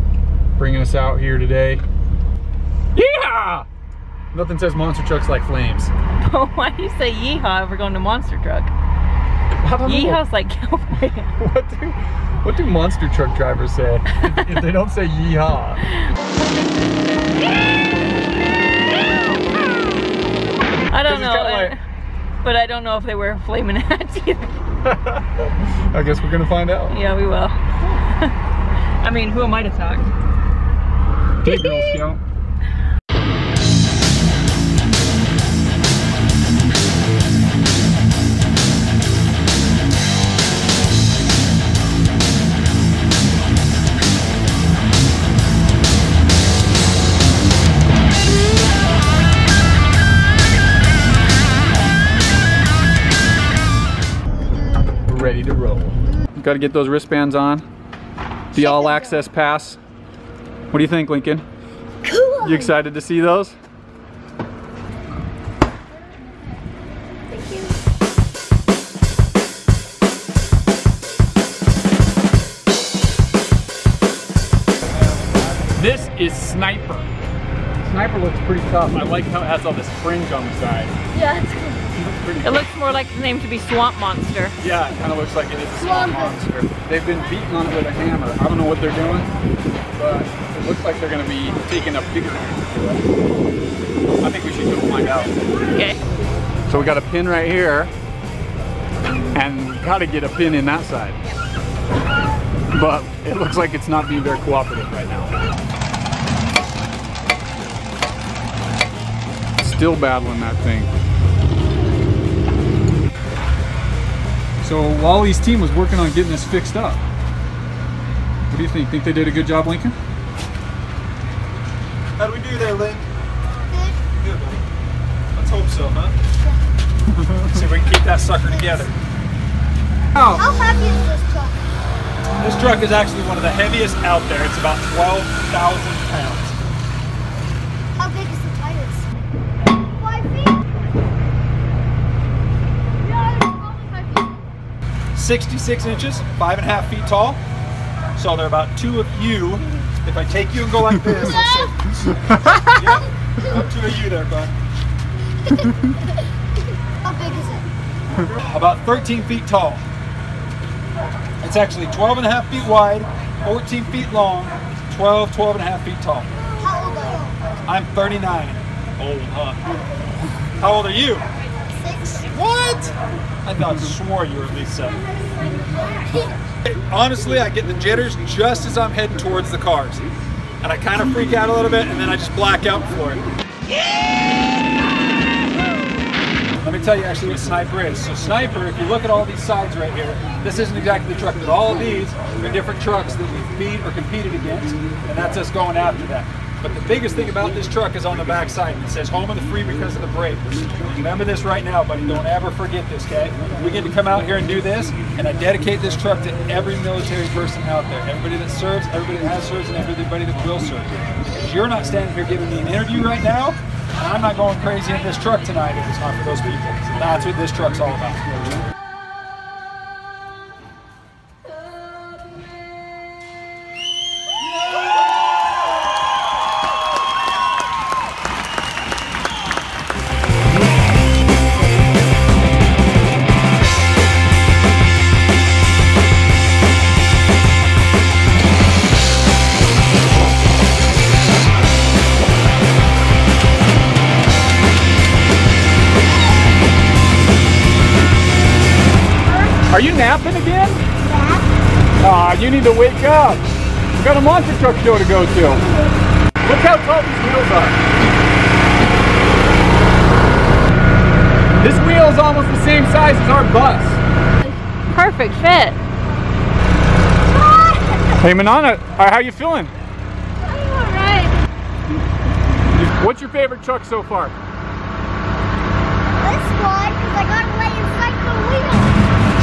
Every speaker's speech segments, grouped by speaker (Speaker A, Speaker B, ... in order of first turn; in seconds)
Speaker A: 0.6-1.8, 2.9-3.7, 4.3-5.9, 9.6-10.2, 11.3-15.8, 21.0-21.7, 24.8-27.0, 31.4-32.2, 55.0-57.6, 58.5-59.8, 60.7-61.5, 62.4-63.5, 75.7-77.1, 77.8-80.9, 82.0-82.7, 84.6-89.3, 90.0-93.0, 94.2-95.3, 96.7-97.9, 99.3-101.2, 102.7-105.3, 109.6-110.9, 114.6-117.0, 118.5-119.9, 127.2-127.6, 130.2-130.4, 207.4-207.7, 249.7-250.8, 252.0-255.6, 256.4-257.8, 261.5-264.0, 268.2-269.7, 272.7-274.4
Speaker B: 6.2-8.7, 9.8-11.3, 20.9-21.8, 22.4-24.6, 26.9-28.3, 29.0-30.1, 31.4-32.1, 62.1-62.7, 67.3-67.7, 81.1-81.8, 82.4-84.5, 95.7-96.0, 264.9-265.8, 270.4-271.3
Speaker C: 58.5-59.1, 85.8-86.3, 123.7-124.0, 130.2-131.6, 137.9-139.1, 139.9-140.6, 143.2-143.9, 151.1-151.7, 152.3-152.9, 157.0-157.7, 166.5-167.4, 171.7-172.3, 251.0-251.4, 267.3-268.2, 276.2-279.0
Speaker D: 122.2-123.1, 124.1-124.6, 125.3-126.1, 127.5-128.9, 132.4-136.6, 145.1-147.4, 148.2-154.5, 158.4-159.8, 161.4-166.3, 167.7-169.6, 170.6-171.2, 172.3-172.9, 173.4-175.0, 176.6-180.0, 180.6-183.2, 186.6-218.2